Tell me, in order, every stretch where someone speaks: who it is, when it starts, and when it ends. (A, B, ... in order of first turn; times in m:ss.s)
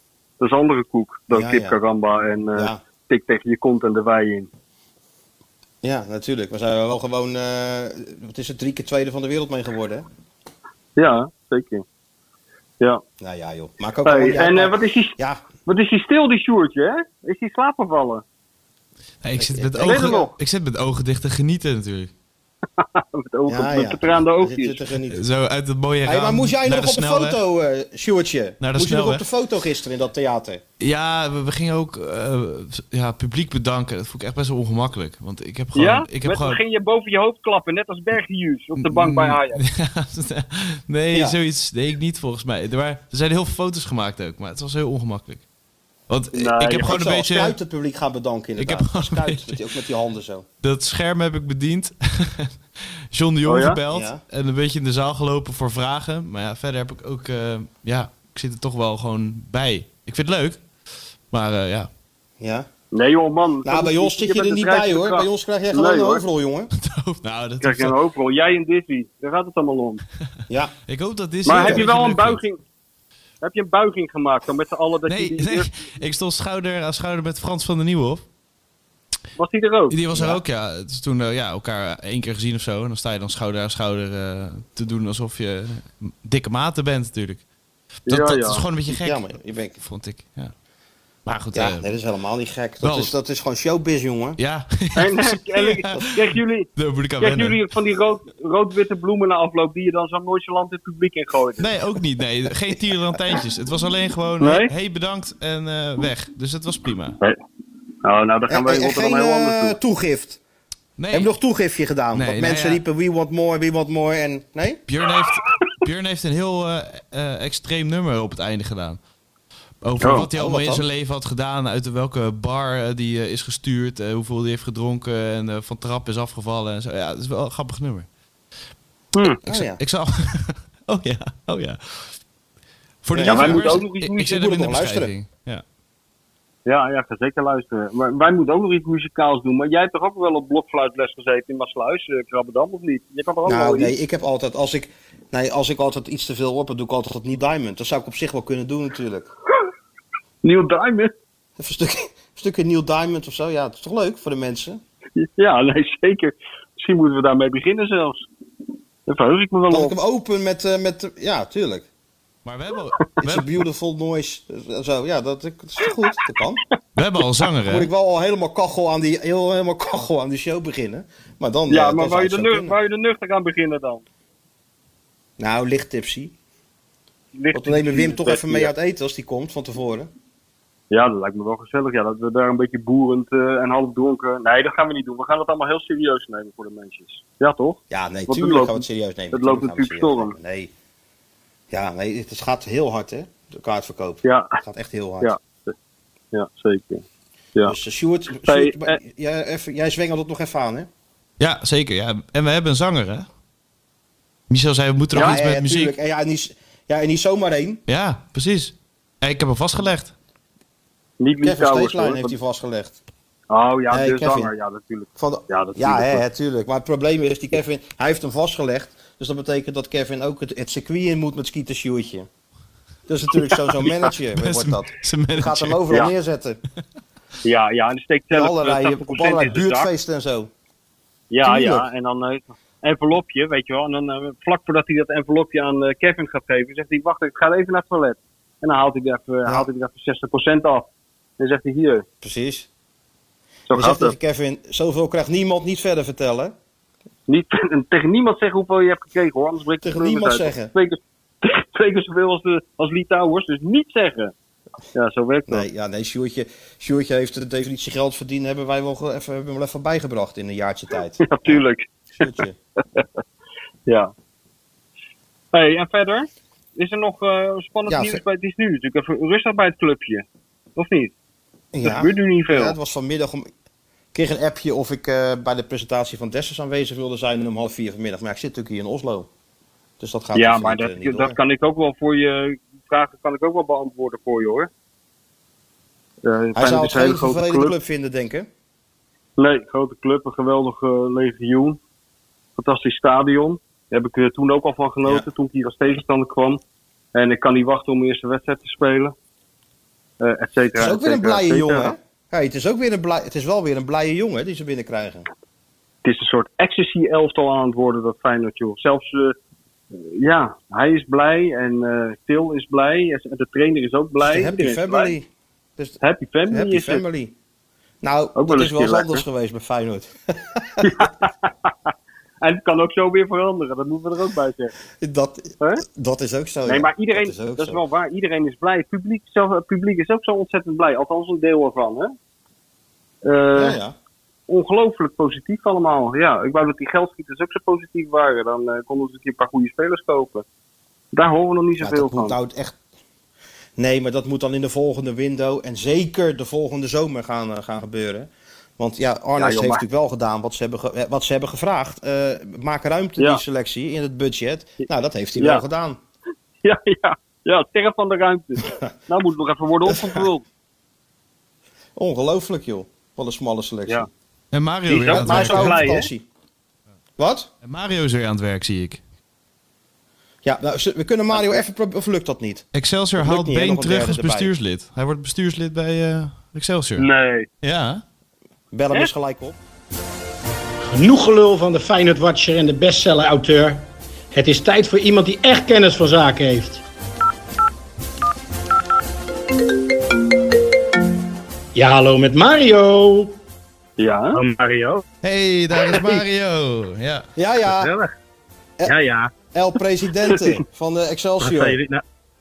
0:00.4-0:04.5 A
0:01.3-0:01.8 B
0:02.6-0:02.8 B
0:05.8-0:10.0 B
0:11.0-0:11.8 A
0:13.2-0:15.4 B
0:14.0-0:18.2 A
0:19.2-0:22.1 C
0:19.4-0:20.2 B
0:19.8-0:20.3 A
0:22.8-0:24.8 A
0:23.5-0:25.2 B
0:25.1-0:27.4 C
0:26.0-0:30.6 B
0:28.6-0:29.2 C
0:30.8-0:36.6 C
0:35.8-0:39.6 A
0:38.8-0:45.5 C
0:46.1-0:47.5 C
0:46.3-0:47.0 A
0:46.8-0:50.5 B
0:48.6-0:49.6 C
0:50.6-1:00.7 C
0:53.4-0:53.8 A
0:53.9-0:54.2 B
1:01.3-1:01.9 C
1:02.4-1:02.7 B
1:02.9-1:06.2 A
1:03.6-1:06.7 B
1:06.8-1:08.0 C
1:07.6-1:10.0 A
1:10.5-1:10.8 B
1:10.9-1:12.4 C
1:11.5-1:11.9 B
1:11.5-1:12.6 A
1:13.4-1:15.7 A
1:15.1-1:18.3 C
1:19.4-1:20.0 A
1:19.9-1:27.5 C
1:20.1-1:20.4 B
1:28.1-1:30.6 C
1:28.1-1:28.6 A
1:28.9-1:29.8 B
1:31.2-1:31.9 C
1:31.5-1:34.4 B
1:32.8-1:33.2 C
1:34.4-1:36.1 C
1:35.0-1:41.7 A
1:36.8-1:37.7 C
1:41.6-1:47.2 C
1:44.4-1:44.7 A
1:48.0-1:49.8 A
1:48.5-1:50.4 B
1:51.0-1:51.3 C
1:51.1-1:54.8 B
1:52.1-1:52.8 C
1:54.9-1:59.0 C
1:59.8-2:08.1 C
2:00.0-2:00.3 A
2:00.4-2:00.8 B
2:09.4-2:09.8 B
2:09.5-2:12.3 C
2:13.0-2:15.6 C
2:13.1-2:15.1 B
2:13.3-2:14.4 A
2:16.7-2:23.9 A
2:23.5-2:29.3 B
2:30.4-2:31.1 A
2:31.6-2:34.8 B
2:35.2-2:38.3 A
2:39.1-2:40.0 A
2:39.7-2:41.9 B
2:42.4-2:43.5 C
2:43.2-2:46.6 B
2:47.0-2:47.9 C
2:47.6-2:52.8 B
2:51.7-2:54.0 A
2:55.4-2:56.3 B
2:57.4-2:58.7 A
2:57.5-3:00.1 B
3:00.9-3:10.4 A
3:07.9-3:10.7 B
3:11.7-3:15.3 B
3:14.2-3:14.6 A
3:15.2-3:15.8 A
3:16.3-3:17.0 A
3:17.6-3:20.9 B
3:18.4-3:19.0 A
3:21.4-3:23.3 C
3:24.5-3:25.9 C
3:25.1-3:25.4 A
3:25.2-3:27.8 B
3:27.9-3:30.1 C
3:31.2-3:32.3 A
3:31.4-3:33.0 B
3:33.5-3:36.2 A
3:33.9-3:34.5 B
3:35.2-3:42.3 B
3:43.1-3:46.6 B
3:44.4-3:45.8 C
3:47.4-3:49.9 A
3:48.3-3:50.5 B
3:51.3-4:00.9 A
3:51.4-3:51.9 B
4:01.4-4:02.0 A
4:02.2-4:02.7 B
4:03.7-4:04.2 A
4:03.7-4:06.6 B
4:07.3-4:14.3 A
4:09.8-4:10.7 B
4:14.9-4:15.7 A
4:15.5-4:21.6 B
4:21.2-4:22.3 A
4:22.2-4:22.6 B
4:23.9-4:24.1 A
4:25.5-4:30.2 A
4:27.9-4:28.2 B
4:30.8-4:31.1 A
4:31.7-4:33.5 B
4:31.8-4:32.8 A
4:34.1-4:39.3 B
4:40.0-4:41.4 B
4:40.4-4:44.7 A
4:46.2-4:47.7 A
4:46.6-4:48.5 B
4:49.4-4:51.8 A
4:52.6-4:56.6 A
4:57.2-4:59.2 A
5:00.2-5:02.0 A
5:00.8-5:05.3 B
5:06.0-5:09.4 A
5:10.0-5:15.1 A
5:14.2-5:17.3 B
5:16.0-5:17.0 A
5:18.0-5:21.1 B
5:18.4-5:19.2 A
5:20.8-5:21.7 A
5:22.4-5:24.7 A
5:25.0-5:27.8 B
5:26.7-5:32.1 A
5:33.2-5:33.8 A
5:33.6-5:34.0 B
5:34.5-5:40.4 A
5:41.1-5:42.4 A
5:41.8-5:42.8 B
5:43.8-5:56.0 B
5:49.4-5:49.8 A
5:54.8-5:55.6 A
5:56.6-6:00.5 A
5:58.6-5:58.9 B
5:59.9-6:00.2 B
6:02.0-6:04.1 B
6:04.5-6:05.9 C
6:04.9-6:06.1 A
6:05.1-6:06.2 B
6:07.2-6:07.5 B
6:07.6-6:09.0 C
6:10.4-6:12.7 B
6:11.3-6:11.6 A
6:12.7-6:17.1 C
6:13.2-6:14.5 B
6:17.0-6:17.5 A
6:17.6-6:18.0 C
6:18.7-6:19.6 B
6:20.9-6:26.8 D
6:31.8-6:33.4 D
6:34.0-6:34.4 A
6:34.4-6:35.0 E
6:35.2-6:37.3 C
6:35.8-6:36.2 E
6:37.4-6:37.9 B
6:37.6-6:38.1 E
6:38.8-6:39.3 E
6:39.5-6:41.8 B
6:40.3-6:40.6 A
6:41.4-6:42.0 E